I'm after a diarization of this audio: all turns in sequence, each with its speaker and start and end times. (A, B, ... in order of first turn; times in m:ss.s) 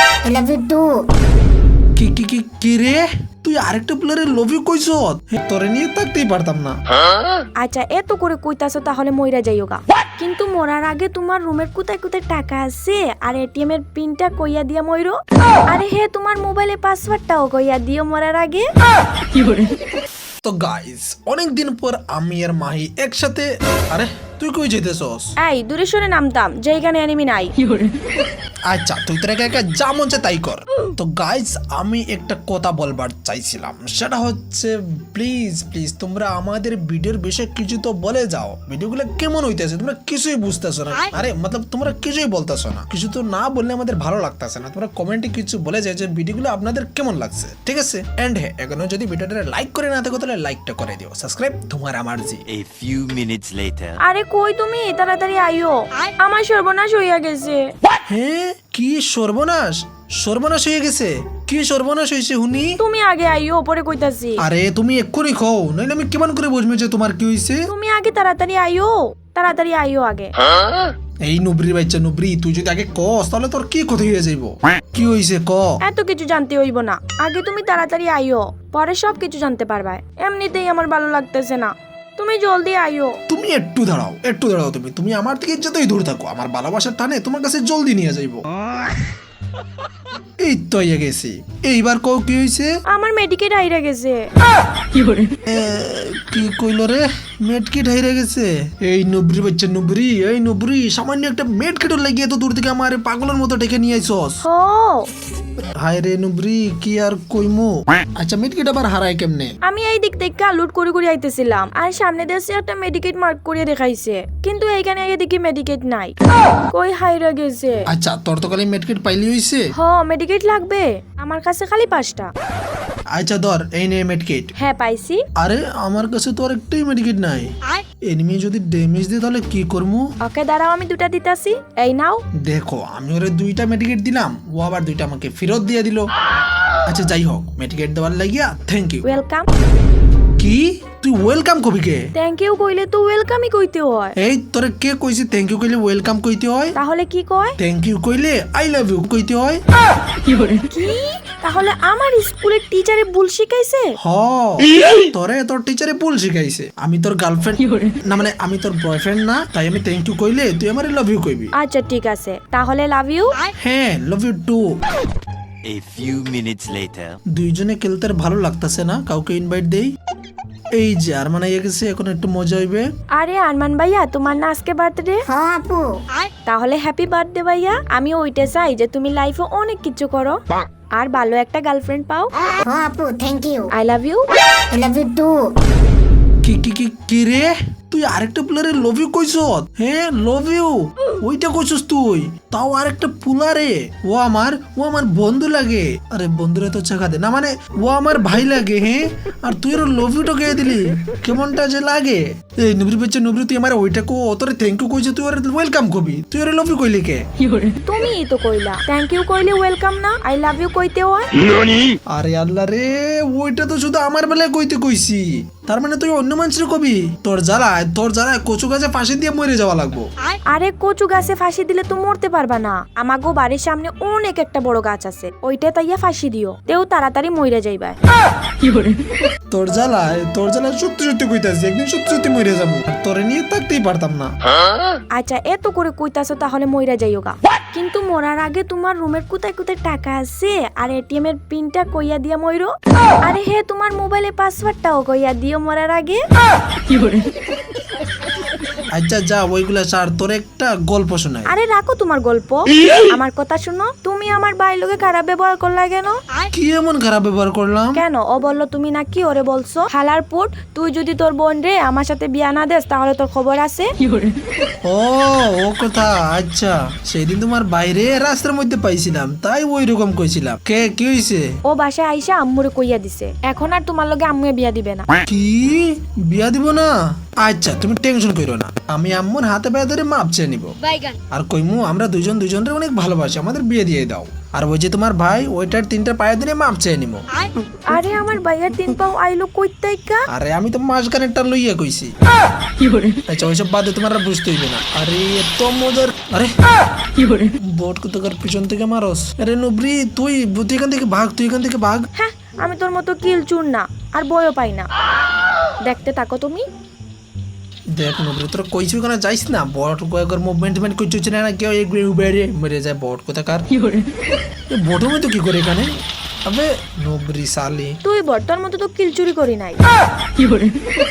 0:00.2-0:01.0 A
0:02.0-0:06.8 B
0:07.6-0:18.7 C
0:20.4-0:25.3 B
0:25.4-0:27.6 C
0:28.7-0:52.4 B
0:52.5-0:54.0 D
0:54.0-0:57.7 C
0:58.1-1:02.8 B
1:02.8-1:04.4 C
1:04.4-1:07.6 B
1:07.7-1:10.4 C
1:11.2-1:15.8 B
1:15.8-1:23.2 C
1:23.3-1:28.4 B
1:30.4-1:32.7 B
1:32.9-1:34.2 C
1:35.5-1:44.4 B
1:44.4-1:45.1 C
1:45.8-1:49.5 B
1:49.6-1:56.2 C
1:56.7-1:57.8 C
1:57.9-1:59.6 B
1:59.8-2:02.3 C
2:03.1-2:04.5 B
2:04.6-2:05.2 C
2:05.4-2:07.5 B
2:08.1-2:10.1 B
2:10.2-2:12.2 C
2:12.4-2:16.1 B
2:16.9-2:19.0 B
2:19.0-2:19.5 C
2:20.4-2:22.1 B
2:22.2-2:24.2 C
2:24.2-2:26.8 B
2:26.8-2:27.6 C
2:27.6-2:29.6 B
2:30.7-2:33.9 C
2:34.0-2:41.5 B
2:41.6-2:43.4 C
2:43.6-2:44.6 B
2:45.7-2:47.2 D
2:47.3-2:49.9 B
2:50.8-2:52.9 B
2:53.2-2:55.2 C
2:55.3-2:56.0 A
2:56.5-3:00.4 C
3:01.0-3:02.3 C
3:02.6-3:03.7 A
3:03.7-3:04.2 C
3:04.7-3:05.4 A
3:06.4-3:27.3 B
3:27.8-3:31.3 C
3:32.1-3:40.1 B
3:40.5-3:48.0 C
3:49.5-3:54.3 B
3:55.2-4:02.7 C
4:03.2-4:06.2 C
4:09.0-4:11.5 B
4:11.5-4:16.2 C
4:16.5-4:18.0 B
4:18.0-4:23.9 C
4:24.8-4:31.5 B
4:31.7-4:35.1 C
4:35.2-4:40.8 B
4:41.3-4:47.3 B
4:47.9-4:50.2 C
4:50.3-4:52.1 B
4:53.3-4:56.5 B
4:57.7-5:02.1 B
5:02.2-5:04.9 C
5:05.8-5:06.6 C
5:07.9-5:13.7 B
5:14.7-5:15.9 B
5:16.5-5:18.0 B
5:18.0-5:19.8 C